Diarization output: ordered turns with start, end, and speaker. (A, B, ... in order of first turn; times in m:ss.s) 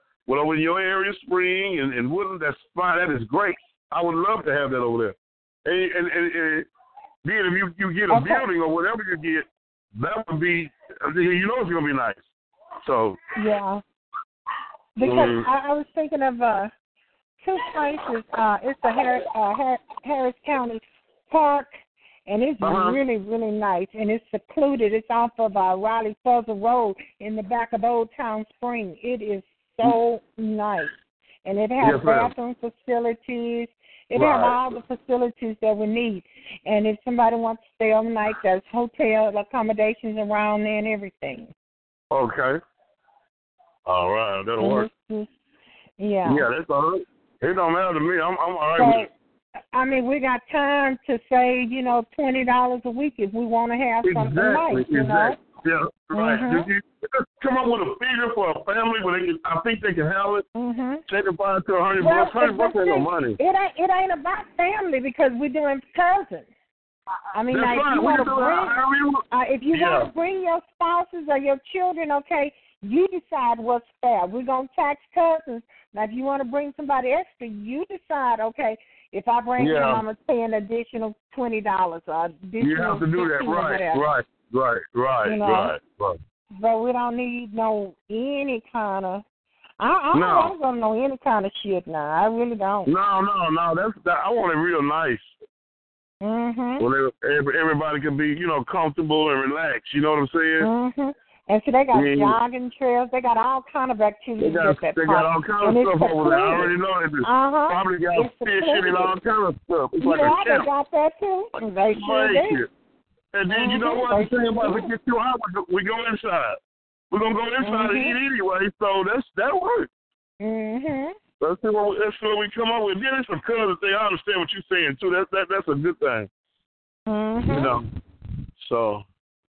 0:00.3-0:06.7 A
0:07.2-0:12.2 A
0:08.1-0:08.4 B
0:12.8-0:13.2 A
0:13.4-0:13.8 B
0:15.0-0:16.7 B
0:15.0-0:15.5 A
0:17.4-0:21.7 B
0:22.3-0:30.9 B
0:22.6-0:23.0 A
0:31.4-0:41.5 B
0:31.8-0:32.3 A
0:34.1-0:34.6 A
0:42.1-0:42.6 A
0:43.9-0:44.9 A
0:44.6-0:45.3 B
0:46.0-0:46.5 B
0:46.2-0:49.1 A
0:48.8-0:49.1 B
0:49.7-0:55.4 B
0:54.0-1:00.5 A
0:56.1-0:56.7 B
1:00.6-1:01.0 B
1:01.1-1:03.4 A
1:02.0-1:06.5 B
1:07.3-1:08.8 B
1:07.5-1:10.1 A
1:09.3-1:24.1 B
1:19.6-1:20.0 A
1:22.6-1:26.2 A
1:25.2-1:25.8 B
1:26.6-1:29.2 B
1:29.8-1:32.9 B
1:30.1-1:30.5 A
1:32.9-1:35.3 A
1:36.2-1:36.8 B
1:36.8-1:40.7 A
1:40.6-1:46.7 B
1:41.9-1:42.4 A
1:44.4-1:50.7 A
1:47.2-1:49.1 B
1:50.0-1:52.6 B
1:51.9-1:52.7 A
1:53.3-1:56.6 A
1:53.5-1:54.9 B
1:57.1-1:59.9 A
1:57.6-1:58.2 B
2:00.4-2:01.2 B
2:01.4-2:06.3 A
2:07.1-2:07.8 B
2:07.5-2:07.9 A
2:08.6-2:09.0 A